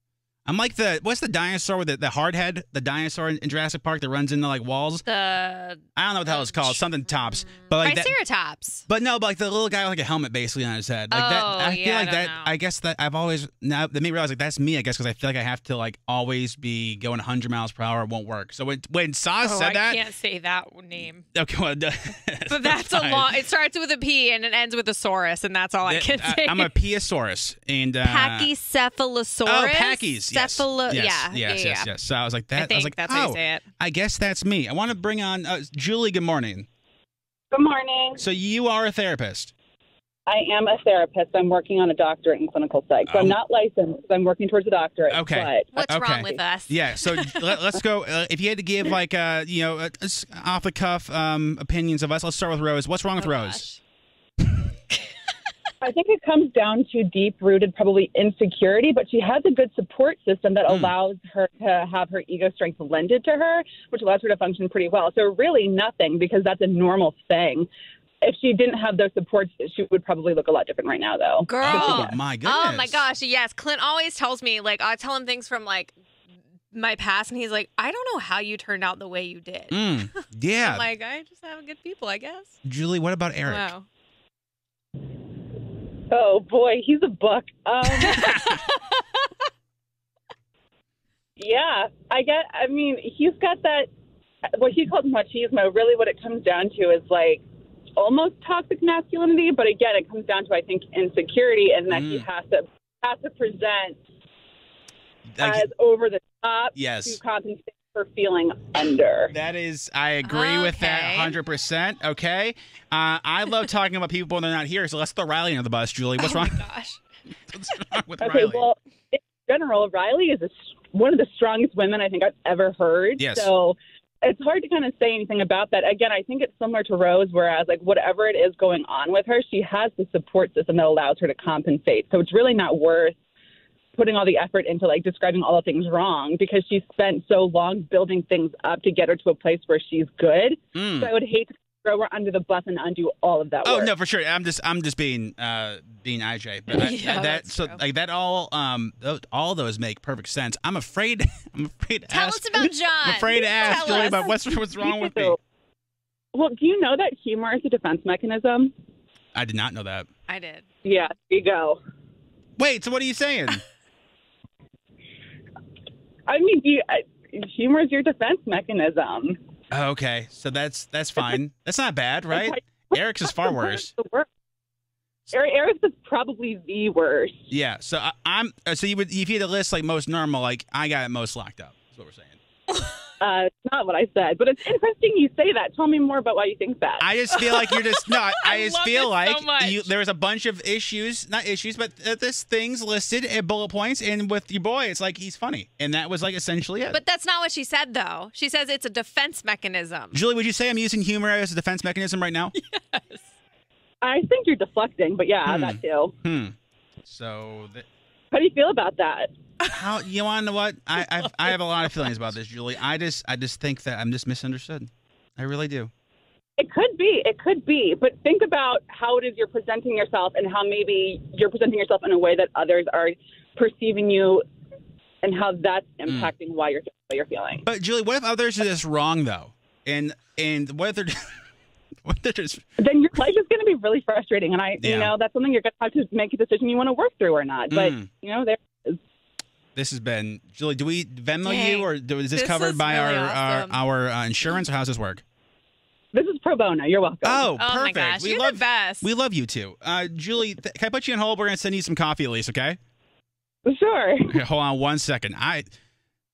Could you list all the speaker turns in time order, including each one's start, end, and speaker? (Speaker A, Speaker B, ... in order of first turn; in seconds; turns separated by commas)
Speaker A: 0.5-5.1, Speaker B: 5.0-6.9, Speaker A: 6.0-8.1, Speaker B: 7.5-8.8, Speaker A: 8.9-20.0, Speaker B: 11.1-12.5, Speaker B: 19.4-21.3, Speaker A: 21.3-23.3, Speaker B: 22.5-26.7, Speaker A: 25.9-28.5, Speaker B: 28.0-31.9, Speaker A: 29.4-36.7, Speaker B: 32.5-33.6, Speaker C: 37.5-38.2, Speaker A: 38.2-39.5, Speaker C: 40.3-45.7, Speaker A: 43.1-43.4, Speaker A: 45.1-53.6, Speaker B: 45.7-47.6, Speaker B: 53.2-53.8, Speaker C: 55.8-67.7, Speaker A: 60.7-60.9, Speaker C: 68.2-72.2, Speaker B: 71.5-75.9, Speaker A: 71.6-73.1, Speaker B: 76.7-82.5, Speaker A: 79.7-80.8, Speaker A: 82.7-83.7, Speaker B: 83.5-83.9, Speaker C: 86.1-88.2, Speaker B: 87.9-89.0, Speaker A: 88.2-88.6, Speaker C: 91.4-93.9, Speaker C: 94.5-97.4, Speaker C: 98.0-104.0, Speaker A: 101.9-102.3, Speaker A: 105.3-105.7, Speaker C: 105.4-109.3, Speaker A: 106.8-107.2, Speaker A: 109.3-116.6, Speaker B: 110.2-111.4, Speaker B: 116.2-117.0, Speaker A: 117.5-118.7, Speaker C: 118.2-133.2, Speaker A: 123.2-123.5, Speaker C: 134.0-143.9, Speaker A: 140.8-141.1, Speaker A: 143.6-155.4, Speaker B: 146.7-147.8, Speaker B: 152.1-154.4, Speaker C: 153.8-154.1, Speaker C: 154.8-155.4, Speaker C: 156.3-158.7, Speaker A: 159.3-160.1, Speaker B: 160.3-160.7, Speaker C: 160.8-161.8, Speaker A: 162.6-163.6, Speaker C: 166.3-169.4, Speaker A: 169.7-173.9, Speaker C: 172.3-174.3, Speaker C: 175.3-177.5, Speaker A: 177.5-182.4, Speaker C: 183.2-187.1, Speaker A: 187.0-197.0, Speaker B: 187.3-189.9, Speaker B: 196.9-200.2, Speaker A: 200.1-202.5, Speaker B: 202.6-203.3, Speaker C: 204.0-206.1, Speaker A: 205.5-207.9, Speaker C: 208.3-209.3, Speaker A: 209.7-215.9, Speaker B: 211.0-212.1, Speaker C: 216.6-224.4, Speaker C: 225.2-227.7, Speaker A: 227.6-231.3, Speaker A: 232.1-232.6, Speaker C: 232.8-239.0, Speaker A: 234.8-235.1, Speaker A: 237.7-238.1, Speaker A: 239.8-245.2, Speaker B: 241.4-243.8, Speaker C: 246.1-247.5, Speaker A: 247.2-252.8, Speaker B: 247.6-249.1, Speaker C: 253.7-254.4, Speaker A: 254.3-255.7